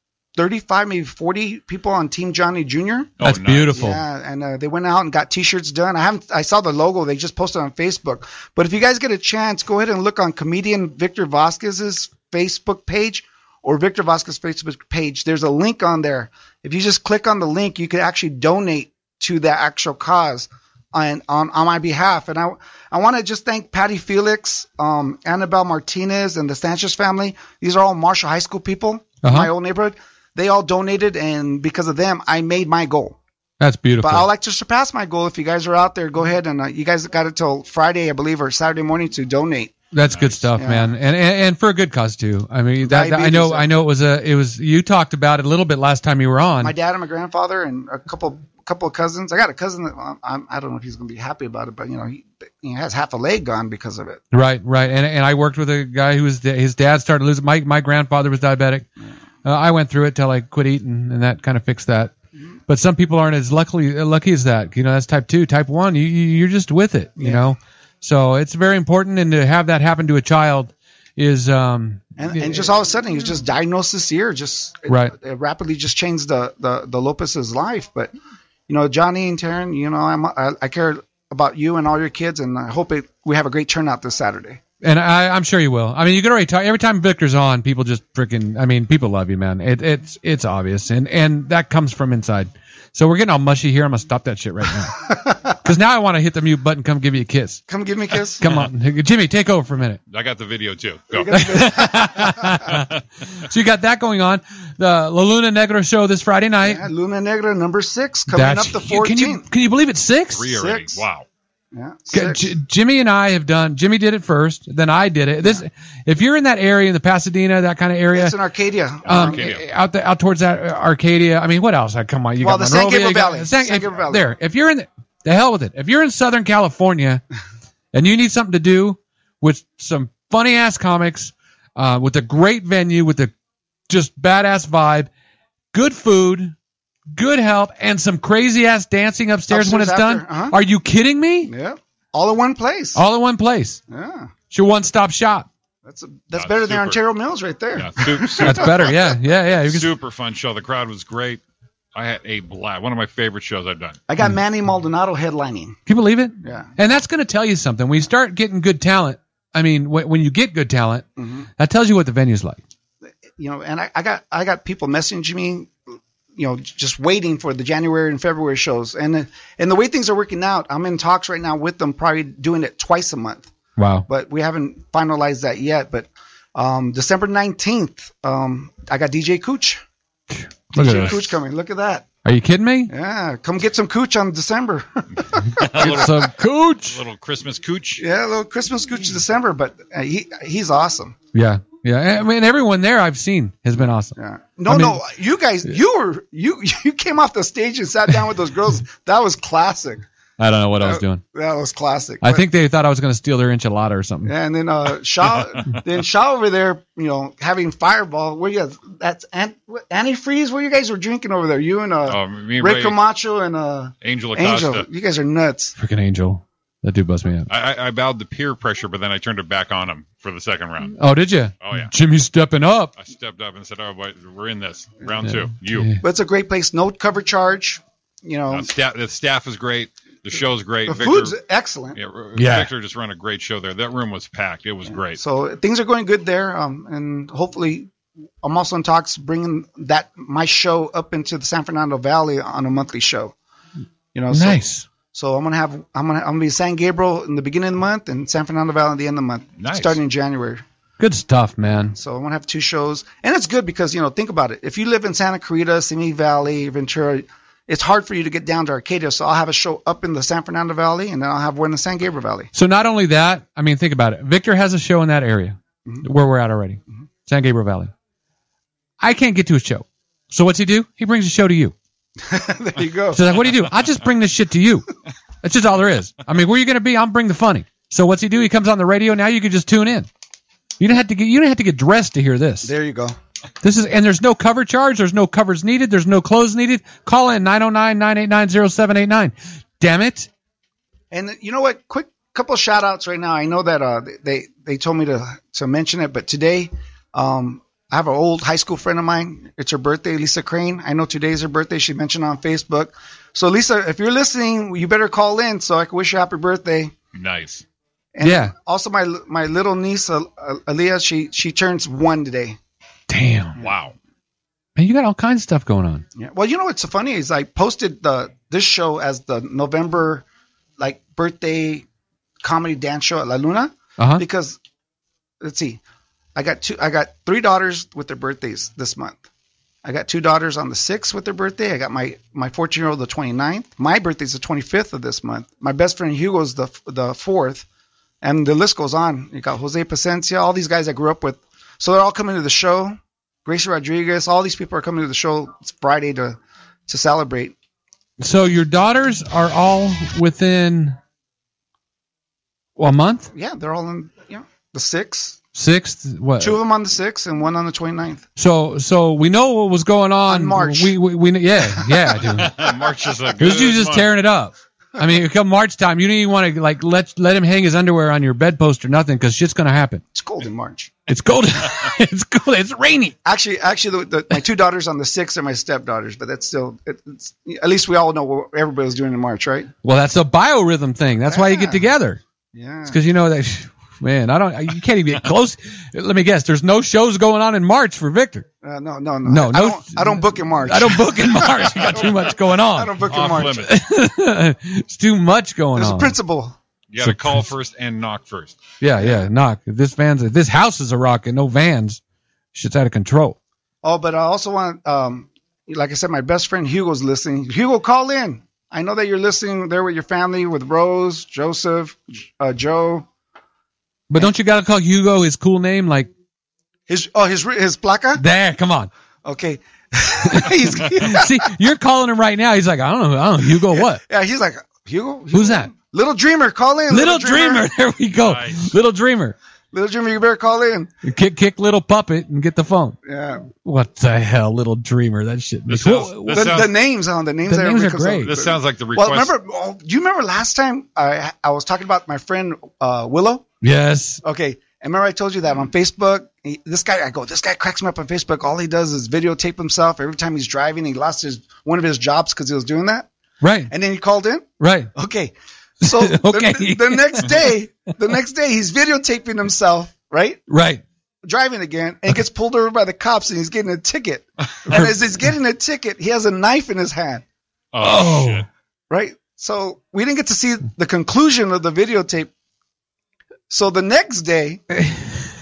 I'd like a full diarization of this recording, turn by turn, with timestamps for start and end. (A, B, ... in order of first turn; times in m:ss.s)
0:00.4-0:03.1 A
0:03.2-0:03.7 B
0:03.2-0:04.0 C
0:03.7-0:33.2 A
0:29.2-0:29.5 C
0:33.6-0:34.3 C
0:34.0-0:39.8 A
0:39.9-0:46.7 C
0:40.1-0:40.4 B
0:40.6-0:40.9 A
0:42.8-0:43.7 A
0:46.6-0:54.2 A
0:54.3-0:58.9 C
0:59.4-1:02.1 C
1:02.7-1:12.6 C
1:07.2-1:07.5 A
1:12.2-1:18.1 A
1:18.7-1:24.6 A
1:24.8-1:37.6 C
1:37.7-1:38.4 A
1:38.4-1:40.0 C
1:38.4-1:38.7 B
1:40.1-1:41.4 B
1:41.1-1:42.6 A
1:41.3-1:46.8 C
1:46.6-1:49.4 A
1:48.3-1:50.4 C
1:50.3-1:51.2 B
1:50.5-1:51.0 A
1:51.7-1:52.5 A
1:52.1-1:58.4 C
1:58.1-1:59.5 A
1:59.0-1:59.6 B
1:59.1-2:07.2 C
2:02.4-2:04.2 A
2:07.9-2:13.3 C
2:13.9-2:15.1 C
2:15.7-2:16.5 C
2:17.1-2:21.5 C
2:19.5-2:20.6 A
2:21.5-2:23.0 A
2:23.0-2:23.8 C
2:23.9-2:24.3 A
2:24.5-2:25.5 C
2:25.8-2:29.1 A
2:26.4-2:27.0 B
2:27.8-2:29.0 B
2:28.4-2:29.9 C
2:29.6-2:31.4 B
2:31.9-2:34.0 B
2:34.1-2:35.8 A
2:35.9-2:41.1 C
2:36.4-2:36.7 A
2:41.2-2:41.5 A
2:41.6-2:42.6 C
2:43.3-2:45.7 A
2:46.4-2:53.5 A
2:53.8-2:54.1 C
2:54.1-2:59.8 A
3:00.3-3:01.3 C
3:00.7-3:02.1 A
3:02.2-3:02.9 C
3:02.9-3:06.1 A
3:05.6-3:06.3 B
3:05.8-3:07.0 C
3:06.8-3:08.0 B
3:08.0-3:11.2 A
3:11.3-3:14.2 C
3:14.2-3:20.1 A
3:14.7-3:15.0 C
3:20.4-3:21.2 C
3:20.8-3:22.4 A
3:22.2-3:24.3 C
3:24.2-3:35.8 A
3:32.1-3:33.0 B
3:34.0-3:34.9 B
3:35.8-3:37.5 C
3:37.5-3:41.0 B
3:41.0-3:42.9 C
3:41.6-3:41.9 B
3:43.0-3:45.9 B
3:45.2-3:46.0 C
3:46.0-3:48.7 A
3:48.5-3:51.4 B
3:50.9-3:52.0 A
3:52.0-3:55.2 B
3:52.4-3:52.7 C
3:54.9-3:57.9 A
3:58.4-4:03.4 A
4:04.1-4:10.6 A
4:04.3-4:04.9 C
4:09.6-4:10.0 B
4:11.0-4:11.9 C
4:11.9-4:22.5 A
4:22.5-4:27.9 C
4:29.0-4:31.7 C
4:32.2-4:33.4 A
4:33.1-4:34.9 C
4:35.4-4:40.1 C
4:40.8-4:42.7 C
4:42.6-4:43.2 A
4:43.6-4:50.3 C
4:51.1-5:06.9 A
5:07.2-5:07.6 B
5:08.2-5:12.6 A
5:08.2-5:08.5 C
5:13.1-5:13.6 C
5:13.6-5:14.0 B
5:14.8-5:16.0 C
5:16.2-5:20.2 A
5:20.8-5:21.9 A
5:22.4-5:24.6 A
5:24.0-5:24.2 C
5:25.4-5:25.8 A
5:26.4-5:29.2 A
5:29.8-5:37.7 A
5:38.2-5:47.5 A
5:48.2-5:51.0 C
5:52.8-5:53.3 C
5:53.3-5:55.4 A
5:55.5-5:56.6 C
5:56.4-5:58.2 A
5:58.4-6:02.5 C
6:00.3-6:01.0 A
6:02.2-6:04.1 B
6:03.4-6:10.0 C
6:10.1-6:10.9 A
6:11.1-6:13.2 C
6:13.2-6:19.7 A
6:19.8-6:22.2 C
6:21.3-6:21.9 A
6:22.5-6:23.0 A
6:22.9-6:28.5 C
6:28.6-6:33.6 A
6:29.2-6:36.2 C
6:33.1-6:33.8 B
6:35.8-6:36.6 A
6:36.9-6:38.6 B
6:37.0-6:37.5 C
6:38.8-6:42.0 C
6:39.0-6:39.2 A
6:42.5-6:43.4 C
6:43.8-6:53.1 A
6:54.1-6:56.1 C
6:56.9-6:58.2 A
6:58.2-6:58.9 C
6:59.2-7:01.5 A
7:00.3-7:04.0 C
7:03.7-7:07.7 A
7:05.3-7:05.7 C
7:06.9-7:09.4 C
7:08.2-7:08.7 B
7:09.7-7:10.9 A
7:11.0-7:13.0 C
7:13.0-7:13.5 A
7:13.6-7:16.6 C
7:15.7-7:16.7 B
7:16.3-7:23.5 A
7:17.5-7:18.3 C
7:18.2-7:19.3 B
7:23.6-7:24.2 C
7:24.2-7:33.1 A
7:33.4-7:33.7 C
7:33.7-7:40.4 A
7:34.6-7:34.9 C
7:35.8-7:37.4 C
7:40.5-7:40.8 C
7:41.2-7:47.2 A
7:47.7-7:48.5 B
7:47.8-7:48.4 C
7:48.9-7:52.3 A
7:53.5-7:54.6 A